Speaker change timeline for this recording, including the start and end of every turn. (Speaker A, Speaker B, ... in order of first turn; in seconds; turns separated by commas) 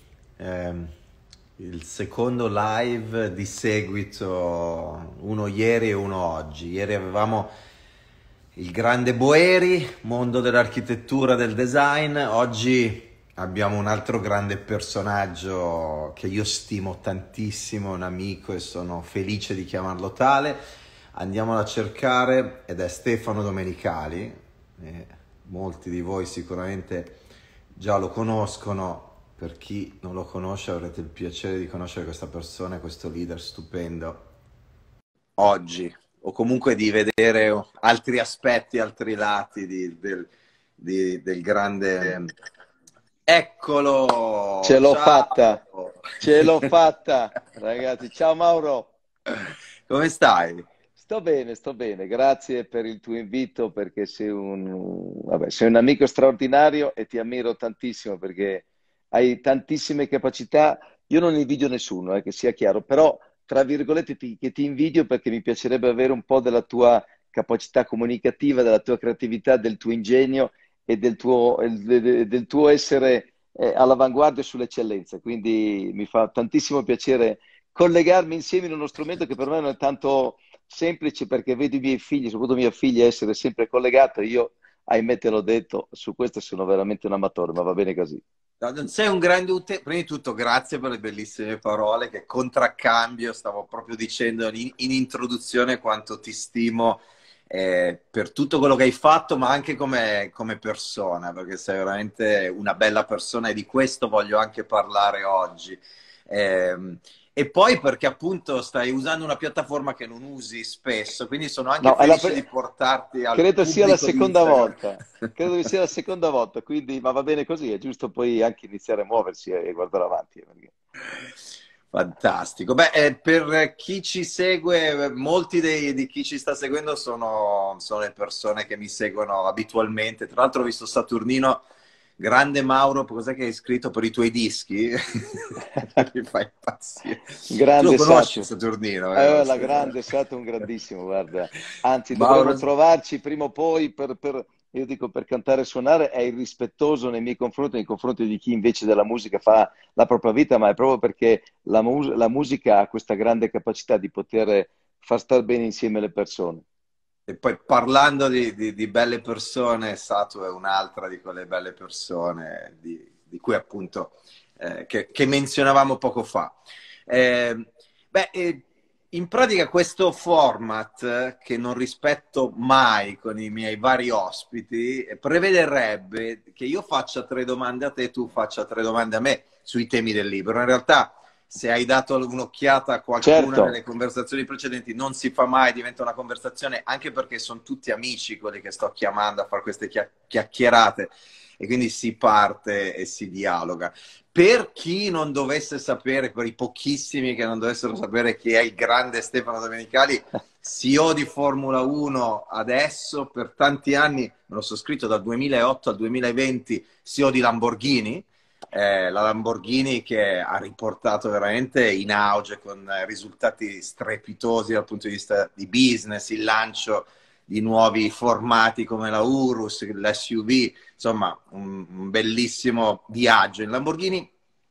Speaker A: 0.4-0.9, Speaker A: 1.6-7.5, Speaker A: 8.6-20.6, Speaker A: 21.1-27.2, Speaker A: 27.8-34.3, Speaker A: 35.4-42.3, Speaker A: 43.3-46.5, Speaker B: 44.6-45.6, Speaker B: 46.2-49.0, Speaker A: 49.9-50.7, Speaker B: 51.0-88.2, Speaker A: 88.6-114.8, Speaker B: 111.8-112.4, Speaker B: 113.3-120.7, Speaker A: 121.9-131.6, Speaker A: 132.2-140.0, Speaker B: 137.5-138.5, Speaker B: 139.2-156.7, Speaker A: 142.1-142.6, Speaker A: 157.3-166.6, Speaker A: 167.1-224.3, Speaker B: 183.2-183.8